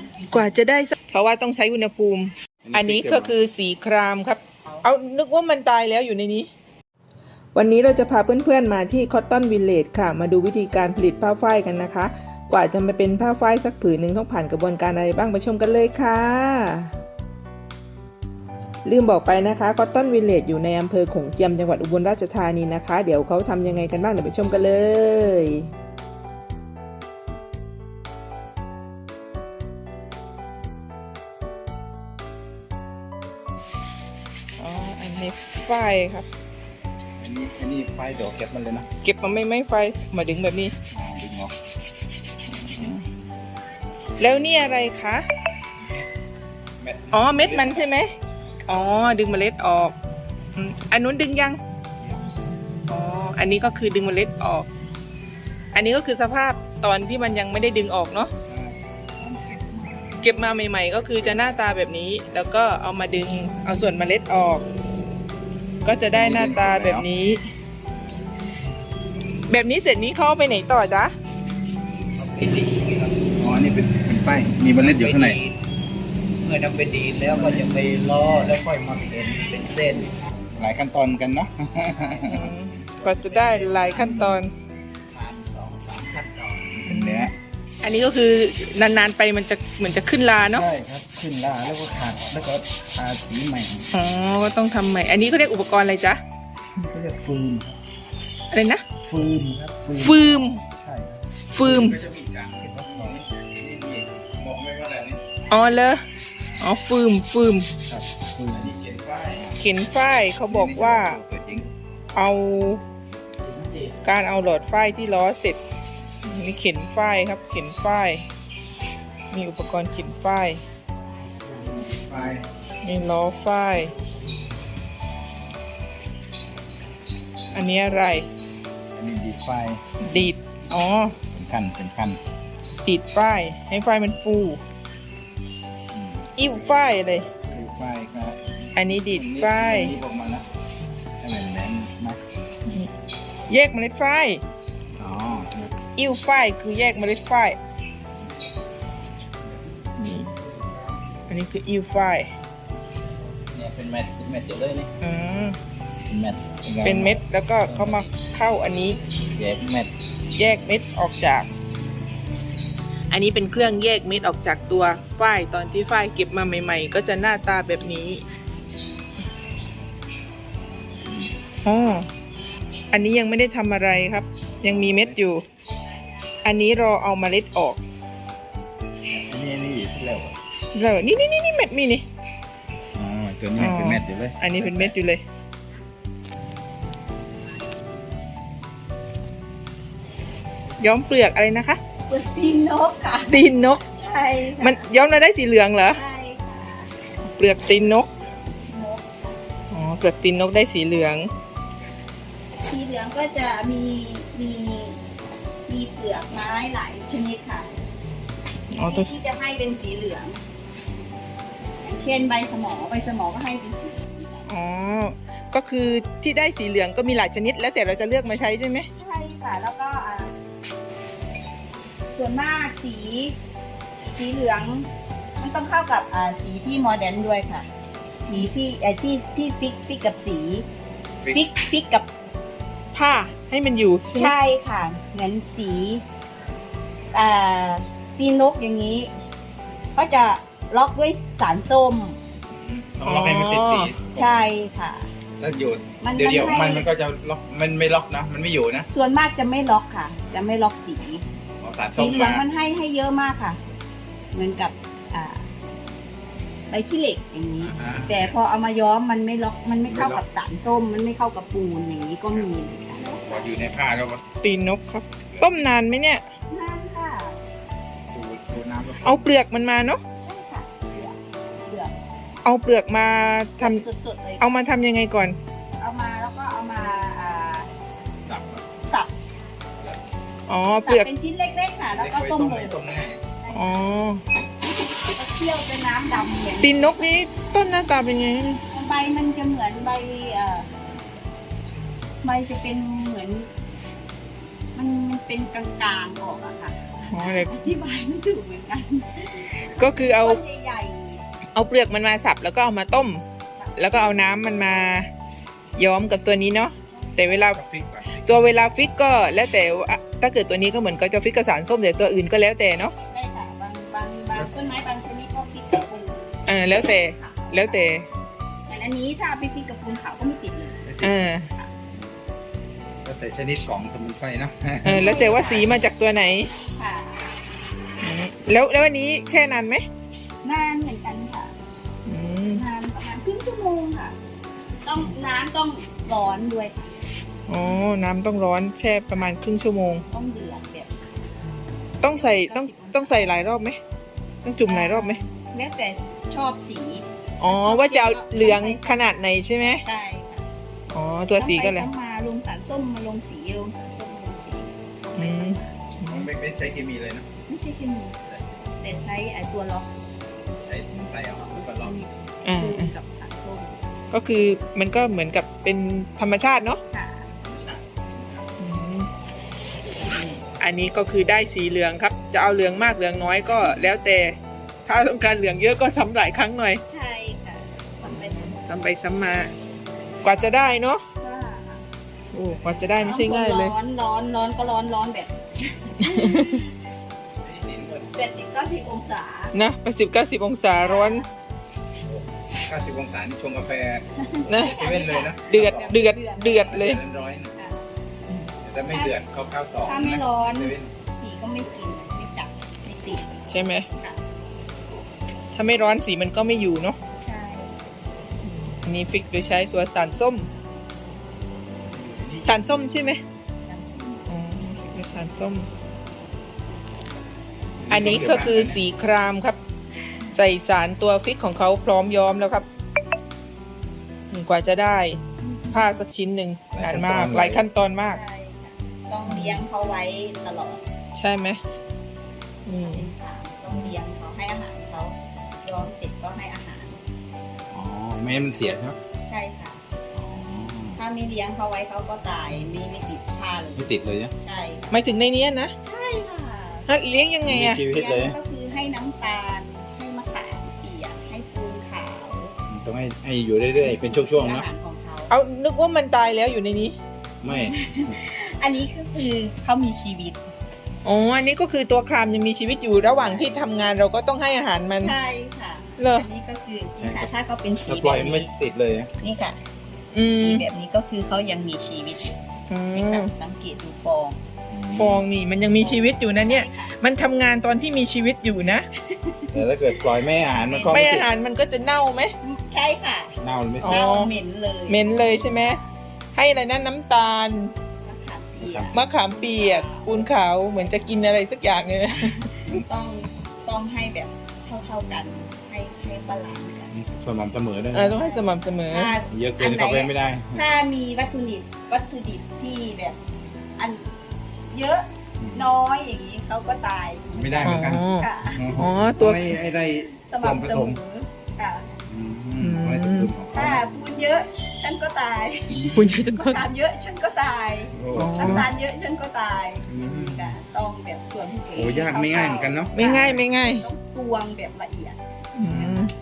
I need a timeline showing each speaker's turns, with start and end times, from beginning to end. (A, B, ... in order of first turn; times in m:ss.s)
0:00.3-0:06.5 A
0:02.6-0:03.3 B
0:07.5-0:16.9 A
0:18.8-0:25.7 A
0:34.6-0:36.3 A
0:37.2-0:38.9 B
0:39.0-0:40.7 A
0:40.9-0:41.5 B
0:42.5-0:43.0 A
0:44.2-0:45.2 A
0:46.8-0:47.9 B
0:47.1-0:48.1 A
0:48.6-0:49.9 A
0:50.6-0:51.6 A
0:52.9-0:54.7 A
0:55.7-0:58.3 A
0:58.5-1:00.2 B
1:00.2-1:04.6 A
1:01.2-1:01.6 B
1:05.8-1:07.4 A
1:06.1-1:07.0 B
1:09.5-1:11.1 A
1:12.2-1:12.8 C
1:13.3-1:15.4 B
1:14.8-1:15.4 C
1:16.4-1:20.0 C
1:17.3-1:17.6 B
1:20.6-1:22.6 B
1:22.2-1:24.5 A
1:23.8-1:24.4 B
1:25.2-1:26.5 C
1:26.7-1:27.3 B
1:26.8-1:27.3 A
1:27.8-1:30.7 A
1:33.9-1:36.2 A
1:38.5-1:38.8 A
1:39.2-1:40.1 C
1:40.0-1:40.6 A
1:41.5-1:42.0 A
1:41.6-1:45.2 B
1:45.5-1:46.0 A
1:46.6-1:47.7 A
1:48.5-1:49.6 B
1:49.6-1:51.2 A
1:50.5-1:51.7 B
1:52.1-1:52.8 A
1:53.5-1:53.7 B
1:54.0-1:55.6 A
1:56.2-1:58.2 A
1:59.3-2:00.6 A
2:01.4-2:02.4 B
2:02.8-2:03.9 A
2:07.5-2:08.2 A
2:08.9-2:10.2 B
2:10.0-2:11.2 A
2:11.3-2:12.2 B
2:12.8-2:14.6 A
2:15.9-2:16.3 B
2:16.4-2:17.3 A
2:17.3-2:20.4 B
2:18.7-2:19.9 A
2:21.2-2:22.2 B
2:23.5-2:24.4 A
2:25.0-2:25.7 B
2:26.0-2:27.6 A
2:30.0-2:30.3 A
2:31.3-2:32.3 A
2:33.5-2:34.9 B
2:35.0-2:35.6 A
2:36.1-2:38.1 B
2:36.8-2:39.0 A
2:39.3-2:39.9 B
2:40.3-2:41.5 A
2:43.1-2:48.2 A
2:51.6-2:52.1 A
2:52.9-2:55.4 A
2:54.6-2:55.2 B
2:56.4-2:57.8 A
2:59.1-3:00.4 B
3:00.7-3:02.0 A
3:02.9-3:04.9 B
3:03.6-3:05.2 A
3:10.8-3:11.8 A
3:12.1-3:14.8 D
3:13.3-3:13.8 A
3:14.6-3:16.0 A
3:15.9-3:16.9 D
3:17.3-3:18.1 A
3:18.6-3:19.4 D
3:19.7-3:21.3 A
3:22.7-3:25.0 D
3:25.7-3:27.7 D
3:28.7-3:29.1 A
3:28.8-3:30.4 D
3:31.8-3:34.4 D
3:34.5-3:38.9 A
3:38.9-3:40.3 D
3:42.1-3:43.3 D
3:44.1-3:47.6 D
3:48.3-3:50.6 D
3:51.3-3:52.1 D
3:52.9-3:54.3 A
3:54.1-3:56.0 D
3:57.1-3:59.1 D
4:00.0-4:02.2 D
4:02.6-4:04.3 B
4:03.0-4:03.9 A
4:04.1-4:05.1 D
4:05.4-4:08.9 B
4:06.0-4:06.9 D
4:08.9-4:11.2 D
4:11.6-4:12.4 B
4:12.0-4:13.6 D
4:14.3-4:15.4 D
4:16.7-4:23.2 D
4:17.6-4:18.3 B
4:19.9-4:20.2 B
4:23.2-4:24.2 B
4:24.4-4:26.2 A
4:26.5-4:27.4 D
4:28.1-4:29.3 B
4:29.0-4:30.0 A
4:30.2-4:32.0 D
4:32.4-4:33.8 A
4:33.6-4:34.5 D
4:34.4-4:35.4 A
4:35.8-4:37.7 D
4:38.2-4:38.6 B
4:38.8-4:39.1 D
4:40.5-4:41.1 A
4:40.7-4:42.8 D
4:41.9-4:43.2 B
4:43.4-4:43.9 D
4:43.5-4:44.2 A
4:44.6-4:46.8 D
4:46.6-4:48.6 A
4:48.7-4:50.7 D
4:52.2-4:53.5 D
4:54.7-5:01.2 D
4:57.1-4:57.6 A
4:59.6-5:00.4 A
5:01.5-5:03.2 A
5:03.6-5:03.9 D
5:03.8-5:05.1 A
5:05.8-5:07.6 A
5:06.9-5:07.5 D
5:07.4-5:08.4 B
5:08.1-5:12.9 A
5:13.1-5:17.9 D
5:16.5-5:18.0 A
5:18.7-5:20.9 D
5:20.9-5:21.2 B
5:21.0-5:21.5 A
5:23.0-5:25.0 B
5:24.8-5:26.5 A
5:24.9-5:25.8 D
5:26.8-5:27.4 D
5:28.0-5:29.8 A
5:30.4-5:31.5 D
5:32.0-5:32.6 A
5:32.5-5:34.2 D
5:34.8-5:37.0 D
5:37.5-5:40.0 A
5:40.1-5:40.9 D
5:42.0-5:43.8 A
5:42.1-5:43.3 D
5:44.4-5:45.2 A
5:44.6-5:50.4 D
5:47.4-5:49.8 A
5:50.9-5:51.9 A
5:51.4-5:55.8 D
5:55.2-5:56.3 A
5:56.1-5:57.2 B
5:57.5-5:58.2 D
5:58.2-5:58.6 B
5:58.8-6:00.0 D
6:00.5-6:02.0 B
6:01.3-6:03.8 D
6:02.4-6:02.9 A
6:04.1-6:06.8 A
6:06.9-6:07.3 D
6:07.3-6:08.5 B
6:08.6-6:09.1 A
6:10.1-6:16.8 A
6:16.9-6:18.6 D
6:18.0-6:19.5 A
6:20.2-6:21.0 A
6:21.2-6:21.8 D
6:22.3-6:23.7 A
6:23.0-6:26.7 D
6:26.0-6:26.6 A
6:27.4-6:28.1 B
6:28.1-6:29.5 D
6:29.5-6:31.2 A
6:30.8-6:31.4 D
6:32.0-6:34.0 B
6:34.2-6:36.7 D
6:34.4-6:34.8 A
6:34.8-6:35.9 B
6:35.5-6:37.0 A
6:36.7-6:37.5 B
6:37.5-6:37.8 D
6:38.6-6:40.9 B
6:38.9-6:39.2 D
6:39.8-6:43.3 D
6:43.5-6:43.8 A
6:45.5-6:47.0 A
6:47.2-6:47.8 D
6:48.4-6:50.5 A
6:51.9-6:52.6 B
6:52.4-6:53.2 A
6:53.6-6:54.3 D
6:54.3-6:55.7 A
6:57.8-6:58.8 B
6:57.9-6:59.6 A
7:00.3-7:02.6 A
7:04.3-7:05.2 A
7:05.7-7:08.2 A
7:06.7-7:07.6 B
7:08.1-7:10.8 D
7:09.3-7:09.6 A
7:11.1-7:11.6 A
7:12.6-7:13.1 A
7:12.8-7:17.0 D
7:17.7-7:19.0 B
7:19.2-7:19.8 D
7:20.1-7:21.0 B
7:21.0-7:23.9 D
7:23.8-7:24.3 B
7:24.4-7:25.2 D
7:24.9-7:25.7 A
7:25.8-7:26.9 D
7:26.9-7:27.8 A
7:27.4-7:28.4 B
7:27.9-7:32.5 D
7:32.7-7:34.7 B
7:33.8-7:35.3 D
7:35.3-7:37.0 A
7:37.4-7:38.1 B
7:37.5-7:40.5 D
7:41.0-7:45.1 A
7:43.0-7:43.9 D
7:44.9-7:48.5 D
7:46.0-7:46.3 A
7:47.0-7:47.3 B
7:47.8-7:49.1 B
7:49.2-7:49.6 D
7:50.1-7:50.6 A
7:50.3-7:52.4 D
7:52.7-7:53.3 A
7:52.9-7:54.4 D
7:54.7-7:55.2 B
7:55.0-7:58.9 A
7:55.8-7:57.0 D
7:59.2-7:59.6 D
7:59.5-8:01.3 B
8:00.6-8:01.0 D
8:00.8-8:02.3 A
8:02.4-8:05.9 D
8:03.4-8:04.0 B
8:03.8-8:04.3 A
8:04.9-8:05.8 A
8:06.3-8:07.7 A
8:08.0-8:10.2 D
8:08.6-8:09.0 B
8:08.9-8:12.5 A
8:12.2-8:16.9 D
8:16.9-8:18.2 B
8:17.9-8:19.2 A
8:18.0-8:23.2 D
8:19.3-8:20.6 B
8:23.8-8:24.1 D
8:24.7-8:28.8 D
8:25.4-8:25.7 B
8:27.3-8:31.0 B
8:27.6-8:29.6 A
8:30.1-8:32.0 D
8:32.1-8:33.9 B
8:32.6-8:33.3 A
8:33.5-8:45.2 D
8:35.7-8:36.2 B
8:35.9-8:36.6 A
8:37.9-8:38.7 B
8:38.1-8:38.7 A
8:39.9-8:40.6 B
8:41.7-8:43.0 B
8:42.9-8:43.8 A
8:45.5-8:46.1 A
8:45.6-8:46.1 B